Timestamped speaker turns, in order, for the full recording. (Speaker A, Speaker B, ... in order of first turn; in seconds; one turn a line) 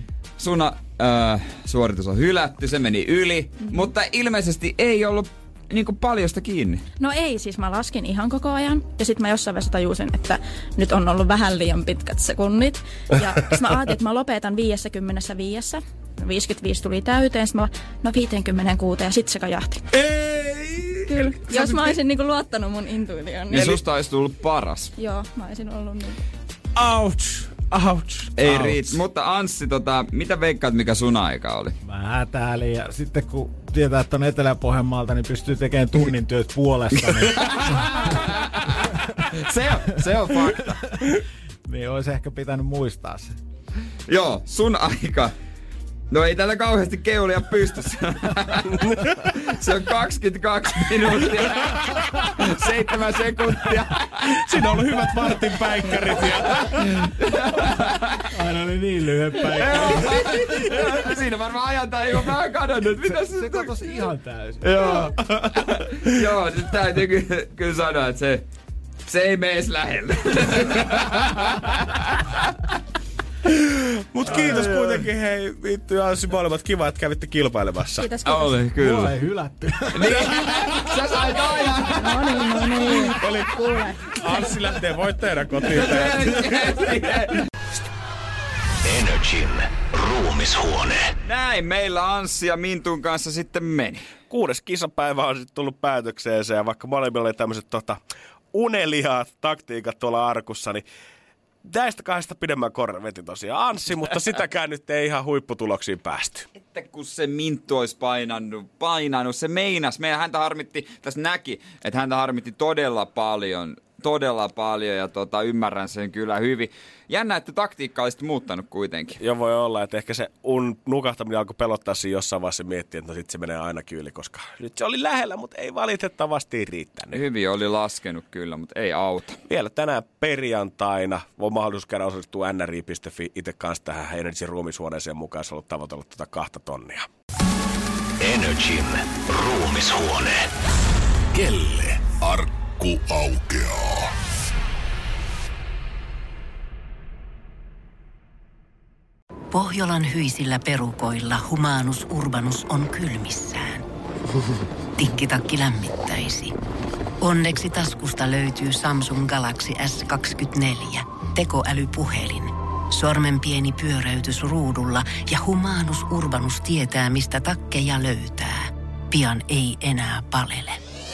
Speaker A: 0.4-6.8
Speaker B: 7.0-19.8
Speaker C: 20.1-20.8
Speaker B: 21.1-23.7
Speaker A: 21.5-21.9
Speaker A: 23.5-24.9
Speaker B: 25.0-26.2
Speaker D: 26.8-29.0
Speaker A: 28.4-31.8
Speaker D: 31.9-38.0
Speaker A: 36.9-40.9
Speaker D: 41.7-43.3
Speaker A: 44.1-45.3
Speaker A: 46.1-54.5
Speaker C: 54.4-56.5
Speaker A: 56.3-58.2
Speaker D: 58.3-60.8
Speaker A: 59.5-64.1
Speaker D: 63.0-65.3
Speaker A: 64.6-68.5
Speaker A: 69.1-72.4
Speaker C: 73.5-78.1
Speaker D: 74.2-74.7
Speaker A: 74.5-75.0
Speaker B: 78.0-78.6
Speaker A: 78.2-79.2
Speaker D: 78.8-80.5
Speaker A: 79.9-82.7
Speaker B: 82.0-84.5
Speaker C: 83.1-86.8
Speaker A: 85.6-87.4
Speaker A: 89.0-89.5
Speaker A: 91.2-94.1
Speaker C: 94.3-98.0
Speaker C: 98.5-100.8
Speaker C: 101.6-106.5
Speaker A: 106.7-119.2
Speaker C: 119.2-127.2
Speaker A: 127.1-129.4
Speaker C: 129.5-137.1
Speaker E: 138.2-140.3
Speaker F: 141.3-144.1
Speaker G: 149.5-153.8
Speaker G: 155.0-156.5
Speaker G: 157.2-170.8